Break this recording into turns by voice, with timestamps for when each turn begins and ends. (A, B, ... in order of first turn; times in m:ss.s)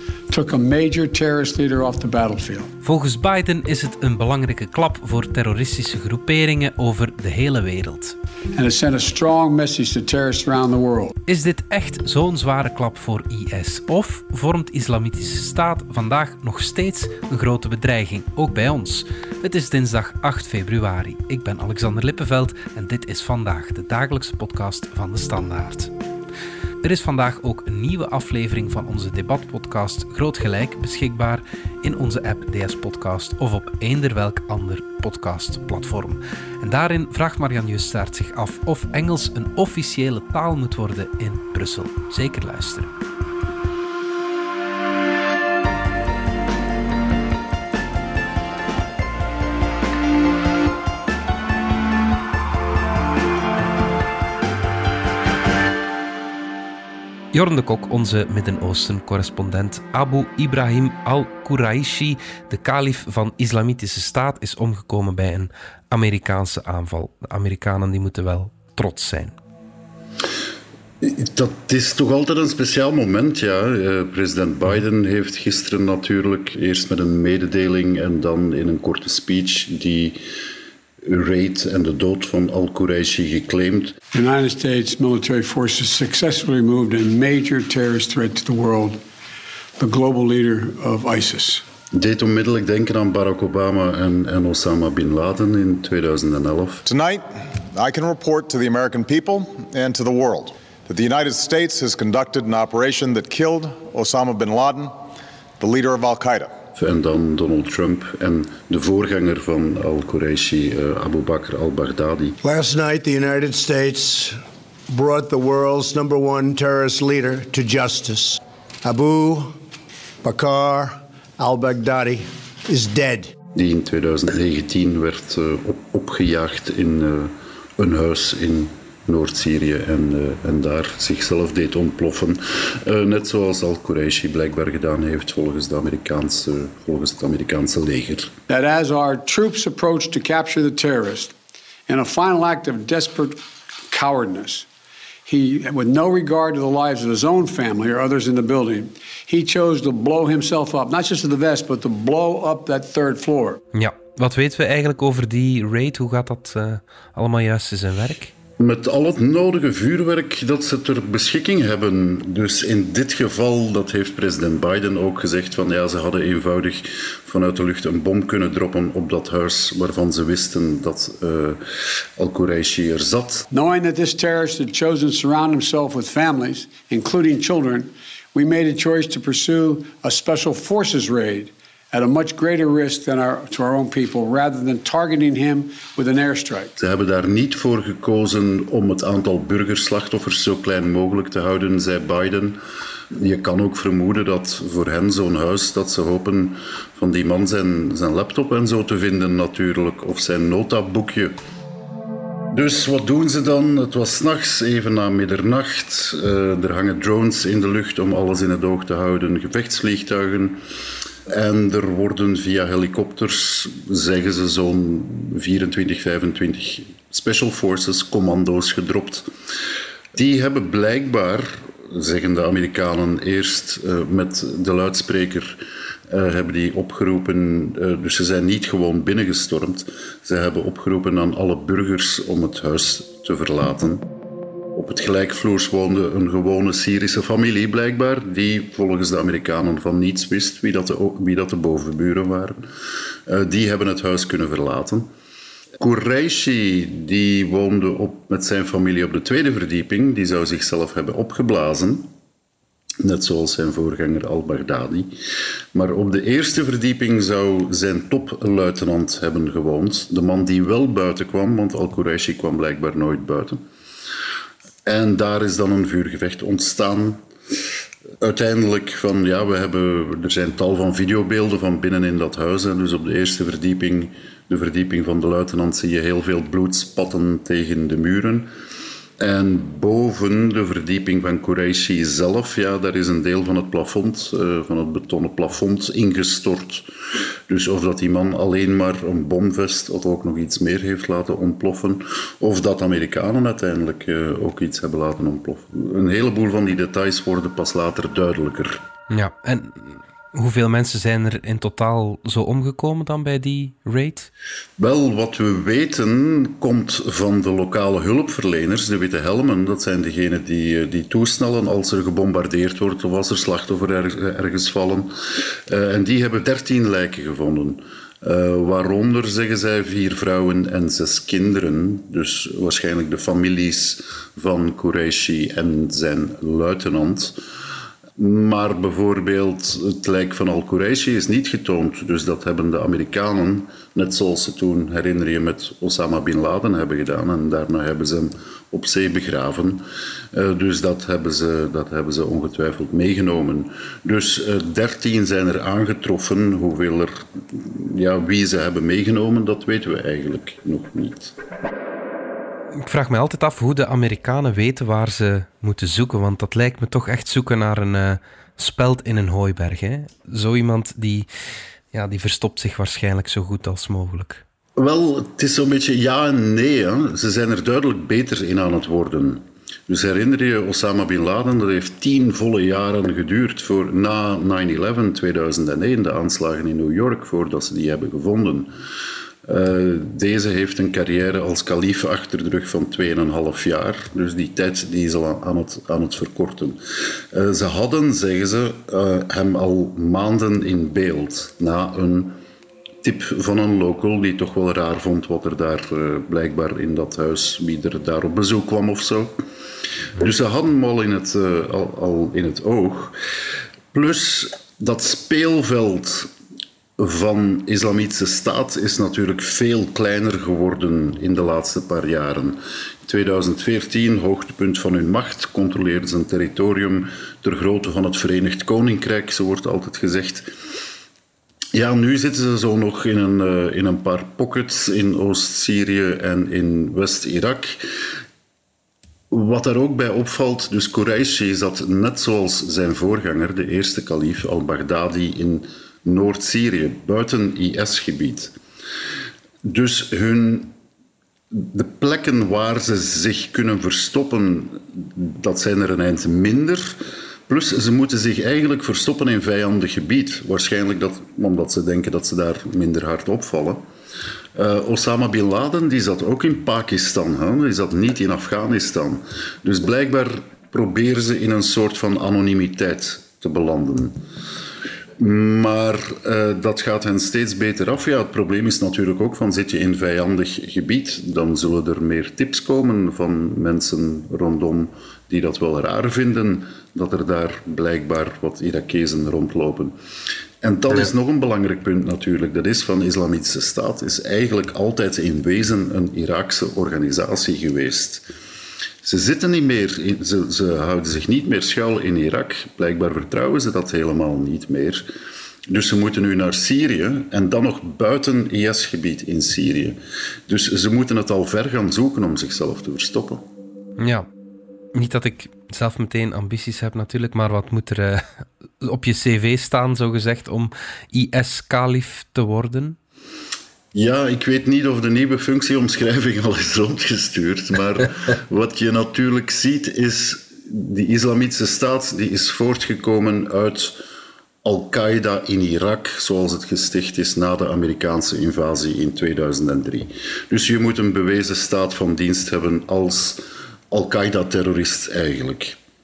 0:00.3-0:02.7 A
0:02.8-0:08.2 B
0:08.5-0:11.1 A
0:11.3-0:25.9 B
0:26.8-0:42.9 B
0:57.3-1:09.4 B
1:11.0-1:20.2 C
1:21.0-1:23.9 C
1:24.1-1:29.0 A
1:29.8-1:31.6 A
1:31.9-1:36.8 C
1:36.8-1:44.9 D
1:45.6-1:46.5 D
1:46.8-1:52.4 C
1:52.4-1:59.5 E
2:00.2-2:03.3 E
2:03.5-2:18.3 C
2:18.5-2:21.3 A
2:21.9-2:23.4 A
2:23.9-2:24.7 A
2:25.2-2:33.6 A
2:33.7-2:38.3 B
2:38.6-2:51.6 C
2:52.2-2:53.5 C
2:53.5-3:06.7 A
3:06.8-3:12.6 C
3:13.1-3:21.3 C
3:22.5-3:30.6 C
3:31.3-3:39.2 C
3:40.1-3:54.0 C
3:54.7-4:02.6 C
4:03.3-4:05.1 C
4:05.8-4:12.0 C
4:13.0-4:15.1 C
4:15.7-4:23.6 C
4:24.8-4:27.2 C
4:28.2-4:38.5 C
4:39.2-4:46.8 C
4:47.5-4:58.8 C
4:59.1-5:04.3 B
5:04.8-5:27.3 C
5:28.2-5:51.3 C
5:52.8-6:01.3 B
6:01.9-6:04.4 B
6:04.8-6:18.7 C
6:19.4-6:26.8 C
6:27.3-6:32.4 C
6:33.0-6:39.4 C
6:40.2-6:43.1 C
6:43.9-6:46.3 C
6:47.0-7:00.5 C
7:01.7-7:07.8 C
7:09.3-7:18.5 C
7:19.6-7:20.7 C
7:21.5-7:27.0 C
7:27.5-7:33.8 C
7:34.5-7:44.1 C
7:45.2-7:59.9 C
8:00.6-8:08.2 C
8:09.0-8:15.1 C
8:15.7-8:23.4 C
8:24.0-8:24.3 B
8:24.9-8:33.0 B
8:33.9-8:44.0 C
8:44.6-8:55.8 C